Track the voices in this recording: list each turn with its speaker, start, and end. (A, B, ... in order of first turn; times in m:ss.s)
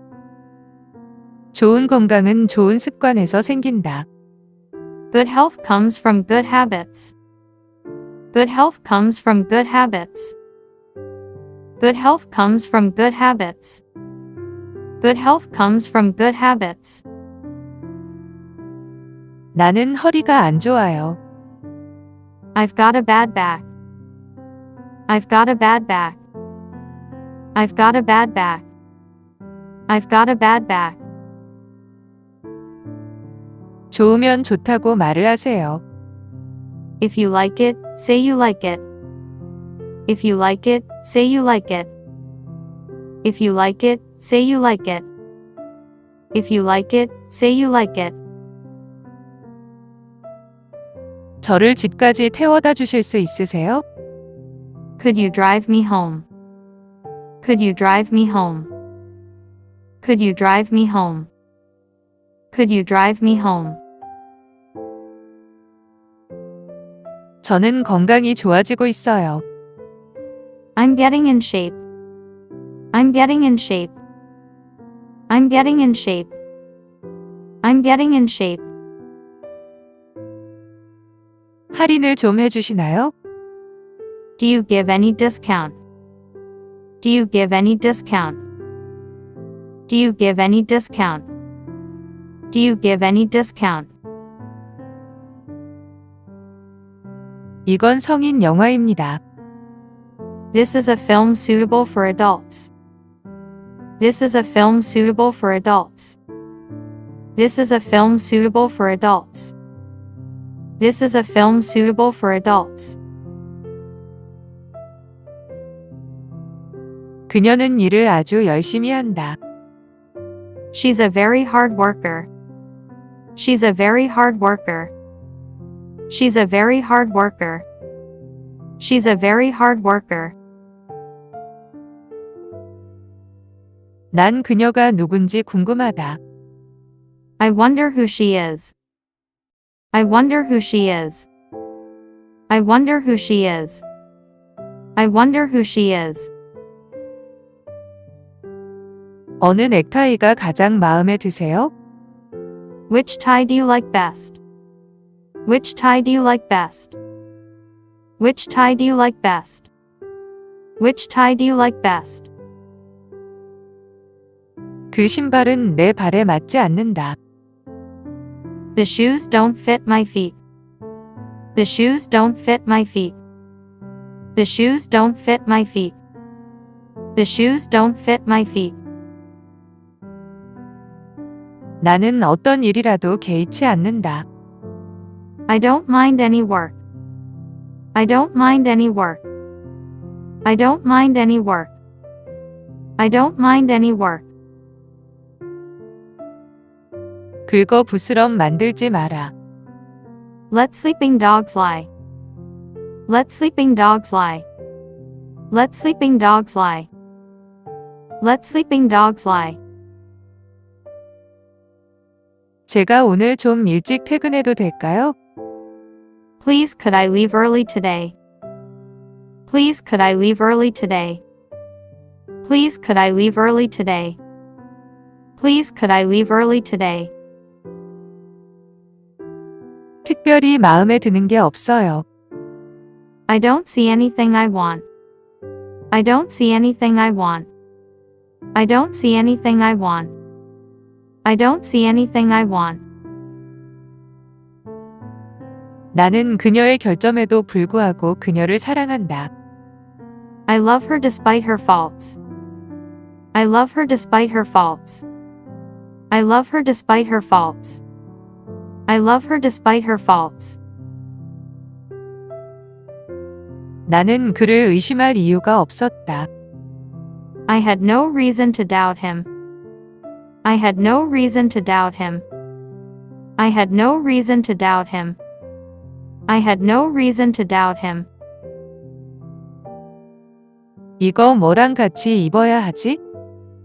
0:01.5-0:04.1 A
0:05.1-0:07.1 B
0:08.3-0:10.4 B
0:11.8-0:13.8 B
0:15.0-0:17.0 B
0:19.5-0:21.2 A
0:22.6-0:23.7 B
0:25.1-0:26.2 B
0:27.6-0:28.7 B
0:29.9-0:31.0 B
0:33.9-0:35.8 A
0:37.0-0:38.8 B
0:40.1-0:41.9 B
0:43.2-0:45.1 B
0:46.3-0:48.2 B
0:51.4-0:53.8 A
0:55.0-0:56.3 B
0:57.4-0:58.7 B
1:00.0-1:01.3 B
1:02.5-1:03.8 B
1:07.4-1:09.4 A
1:10.8-1:11.8 B
1:12.9-1:14.0 B
1:15.3-1:16.3 B
1:17.6-1:18.7 B
1:21.7-1:23.1 A
1:24.4-1:25.8 B
1:27.0-1:28.4 B
1:29.9-1:31.3 B
1:32.5-1:33.9 B
1:37.7-1:39.2 A
1:40.5-1:42.7 B
1:44.0-1:46.2 B
1:47.4-1:49.5 B
1:50.8-1:53.0 B
1:57.3-1:59.4 A
2:00.7-2:02.3 B
2:03.4-2:04.9 B
2:06.1-2:07.6 B
2:08.8-2:10.4 B
2:14.1-2:16.2 A
2:17.4-2:18.7 B
2:19.9-2:21.3 B
2:22.5-2:23.8 B
2:25.0-2:26.3 B
2:29.4-2:31.7 A
2:32.9-2:34.4 B
2:35.4-2:37.0 B
2:38.2-2:39.7 B
2:40.8-2:42.3 B
2:44.9-2:47.2 A
2:48.8-2:50.4 B
2:51.6-2:53.2 B
2:54.4-2:56.0 B
2:57.2-2:58.8 B
3:01.8-3:04.2 A
3:05.5-3:06.8 B
3:07.9-3:09.3 B
3:10.4-3:11.7 B
3:13.0-3:14.3 B
3:17.5-3:19.3 A
3:20.5-3:21.9 B
3:23.1-3:24.4 B
3:25.5-3:26.9 B
3:28.2-3:29.6 B
3:32.7-3:35.2 A
3:36.4-3:38.2 B
3:39.5-3:41.2 B
3:42.4-3:44.2 B
3:45.4-3:47.1 B
3:50.0-3:52.1 A
3:53.3-3:54.8 B
3:55.9-3:57.5 B
3:58.5-4:00.1 B
4:01.2-4:02.8 B
4:05.9-4:09.3 A
4:10.5-4:12.2 B
4:13.3-4:15.0 B
4:16.1-4:17.8 B
4:18.9-4:20.6 B
4:23.9-4:26.3 A
4:27.5-4:29.3 B
4:30.4-4:32.2 B
4:33.4-4:35.2 B
4:36.3-4:38.1 B
4:41.0-4:43.0 A